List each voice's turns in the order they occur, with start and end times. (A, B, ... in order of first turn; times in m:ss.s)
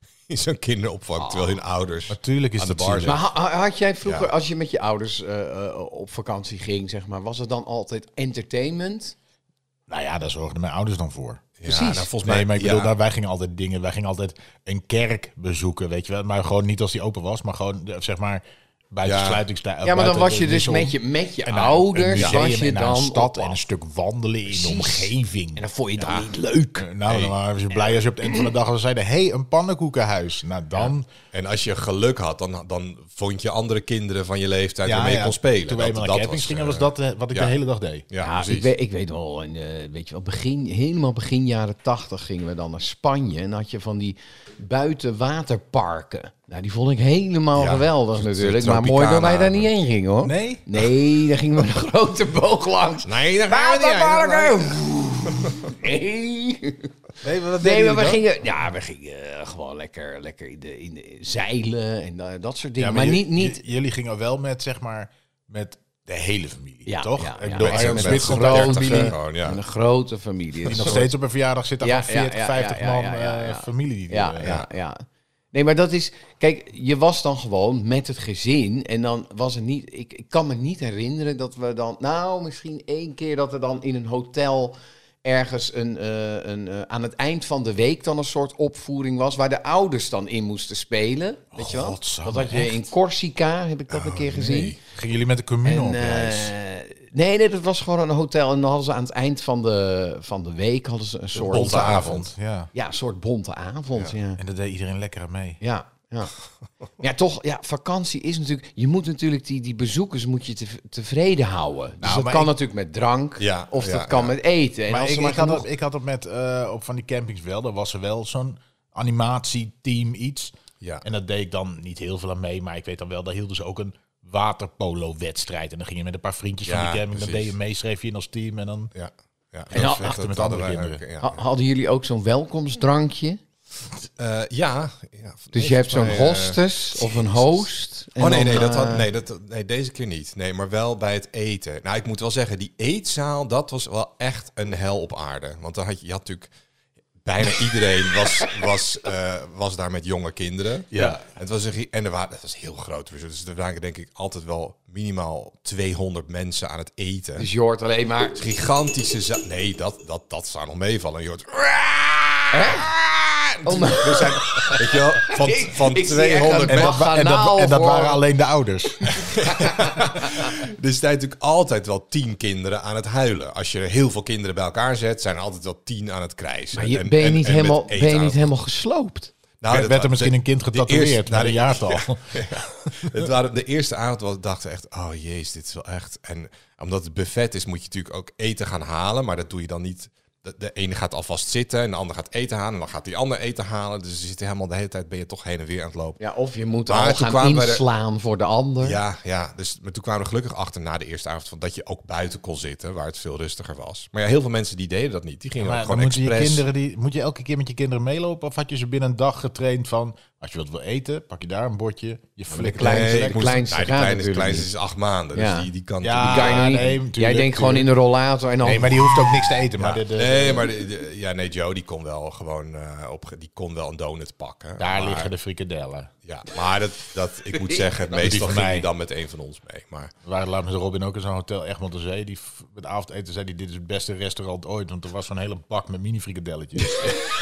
0:00.3-0:03.2 A
0:01.2-0:01.5 B
0:02.1-0:03.2 C
0:03.1-0:09.2 B
0:09.9-0:11.6 C
0:11.6-0:12.9 A
0:11.6-0:12.1 B
0:12.2-0:25.6 C
0:19.0-0:19.4 A
0:19.8-0:23.6 B
0:24.5-0:26.9 B
0:26.0-0:26.2 A
0:26.8-0:31.1 C
0:27.1-0:27.4 A
0:31.3-0:37.6 A
0:34.9-0:38.1 C
0:38.1-0:38.7 A
0:38.2-0:56.9 B
0:47.6-0:49.7 A
0:50.2-0:50.6 C
0:53.0-0:54.8 A
0:57.2-0:58.2 C
0:57.6-1:03.6 B
1:02.8-1:09.2 C
1:06.9-1:11.1 B
1:07.6-1:09.6 A
1:10.7-1:14.6 C
1:11.8-1:34.8 B
1:31.5-1:32.8 C
1:33.9-1:34.8 A
1:34.9-1:36.5 C
1:35.6-1:44.4 B
1:41.4-1:42.7 C
1:41.4-1:42.3 A
1:44.4-1:45.6 C
1:45.6-1:46.3 B
1:47.0-1:55.7 B
1:52.0-1:52.5 C
1:53.4-1:54.3 A
1:54.9-2:08.9 C
2:06.6-2:07.5 A
2:09.0-2:11.4 A
2:09.7-2:11.0 C
2:09.7-2:10.1 B
2:11.2-2:13.4 B
2:14.2-2:17.6 A
2:15.5-2:19.1 B
2:18.2-2:26.5 A
2:27.2-2:37.5 A
2:30.9-2:31.2 C
2:37.4-2:38.4 B
2:38.4-2:47.0 A
2:42.5-2:42.9 B
2:43.6-2:48.2 B
2:46.7-2:49.3 C
2:49.2-2:50.5 B
2:49.4-2:58.5 A
2:56.8-2:59.3 B
2:59.6-3:16.2 A
2:59.7-3:03.3 C
3:16.2-3:19.0 B
3:16.9-3:17.8 A
3:18.8-3:26.6 A
3:25.6-3:33.6 C
3:32.5-3:34.7 B
3:32.7-3:36.9 A
3:35.3-3:35.7 B
3:36.0-3:37.9 C
3:36.2-3:39.1 B
3:38.6-3:40.7 C
3:39.7-3:45.3 A
3:44.8-3:46.1 C
3:46.2-3:50.1 A
3:48.2-3:48.9 C
3:50.2-3:57.2 C